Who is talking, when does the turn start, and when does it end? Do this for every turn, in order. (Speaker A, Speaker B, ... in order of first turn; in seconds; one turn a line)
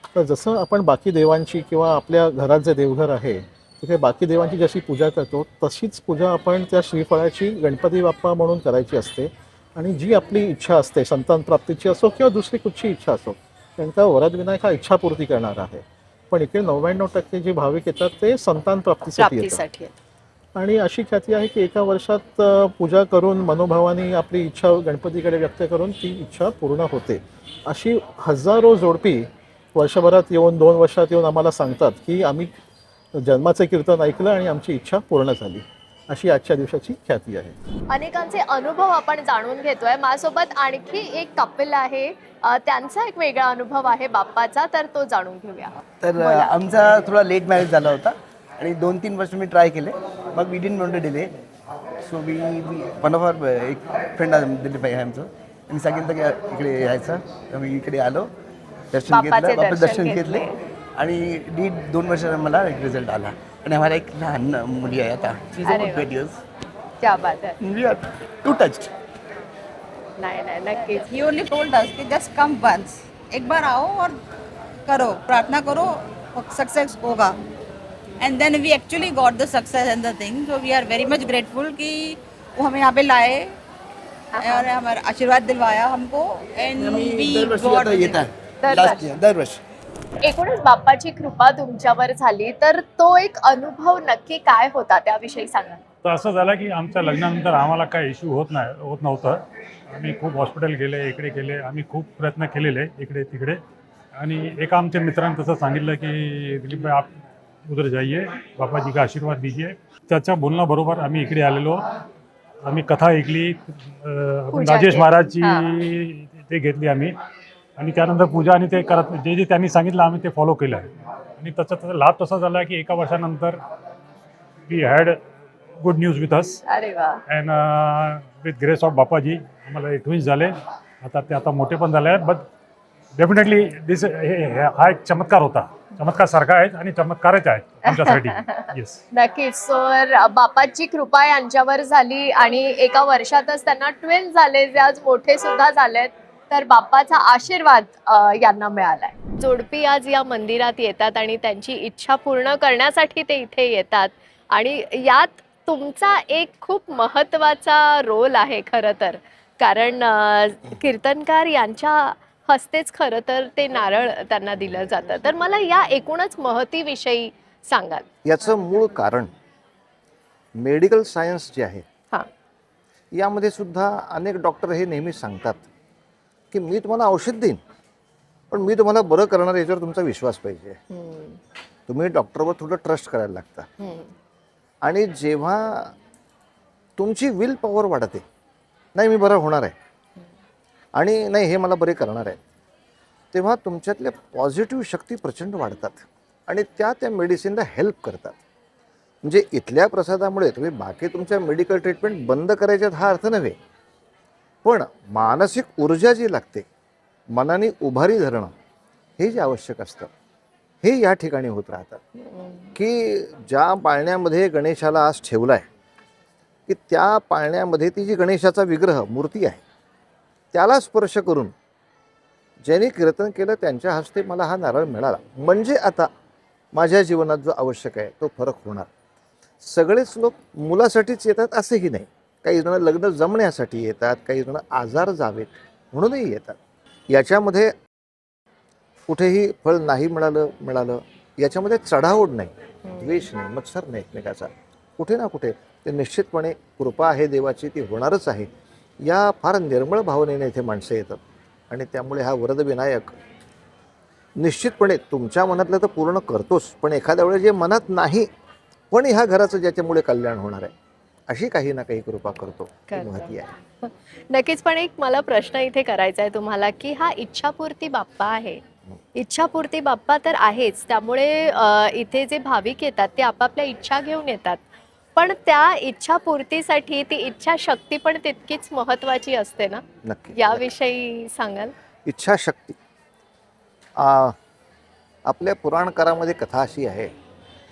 Speaker A: 0.1-19.6
Speaker B: 19.2-19.9
Speaker A: 20.5-32.5
Speaker A: 33.1-37.5
Speaker B: 37.9-46.5
Speaker C: 46.0-51.3
Speaker C: 52.0-58.3
Speaker C: 58.9-66.4
Speaker B: 59.1-60.5
Speaker B: 65.6-66.1
Speaker B: 67.0-67.5
Speaker C: 67.6-68.9
Speaker B: 70.2-71.1
Speaker D: 71.1-74.2
Speaker D: 74.9-77.4
Speaker D: 78.2-83.5
Speaker D: 84.4-88.8
Speaker C: 86.8-89.6
Speaker B: 88.6-89.1
Speaker B: 90.2-95.8
Speaker E: 96.0-99.4
Speaker E: 99.9-103.6
Speaker E: 104.2-107.1
Speaker E: 107.7-111.8
Speaker E: 112.6-117.1
Speaker B: 114.5-115.7
Speaker E: 117.8-120.9
Speaker E: 121.4-123.5
Speaker E: 124.7-125.2
Speaker E: 125.8-126.6
Speaker B: 126.6-127.2
Speaker E: 127.3-130.5
Speaker E: 131.0-132.5
Speaker E: 133.2-139.0
Speaker B: 137.8-168.1
Speaker F: 168.2-169.3
Speaker F: 170.6-171.8
Speaker F: 173.1-175.6
Speaker F: 176.5-177.6
Speaker F: 178.5-180.8
Speaker B: 180.9-181.4
Speaker F: 181.9-183.7
Speaker B: 183.8-184.1
Speaker F: 184.8-185.9
Speaker F: 187.0-188.2
Speaker F: 188.9-189.8
Speaker F: 190.9-192.4
Speaker F: 193.3-198.4
Speaker F: 199.2-203.6
Speaker F: 204.6-206.7
Speaker F: 207.3-208.5
Speaker F: 209.2-210.1
Speaker F: 210.8-212.0
Speaker B: 212.3-212.7
Speaker F: 212.8-215.6
Speaker F: 216.7-219.6
Speaker F: 220.5-221.5
Speaker F: 222.6-226.1
Speaker F: 226.7-228.9
Speaker F: 229.6-236.6
Speaker F: 237.1-237.7
Speaker F: 239.1-248.5
Speaker F: 249.0-251.2
Speaker F: 251.7-253.1
Speaker F: 254.4-258.3
Speaker F: 258.9-260.7
Speaker F: 261.3-263.5
Speaker B: 262.9-263.2
Speaker B: 263.8-268.6
Speaker B: 269.1-274.6
Speaker B: 275.1-279.8
Speaker F: 280.0-280.7
Speaker B: 280.4-281.7
Speaker F: 282.1-282.8
Speaker F: 284.0-284.4
Speaker F: 285.2-287.1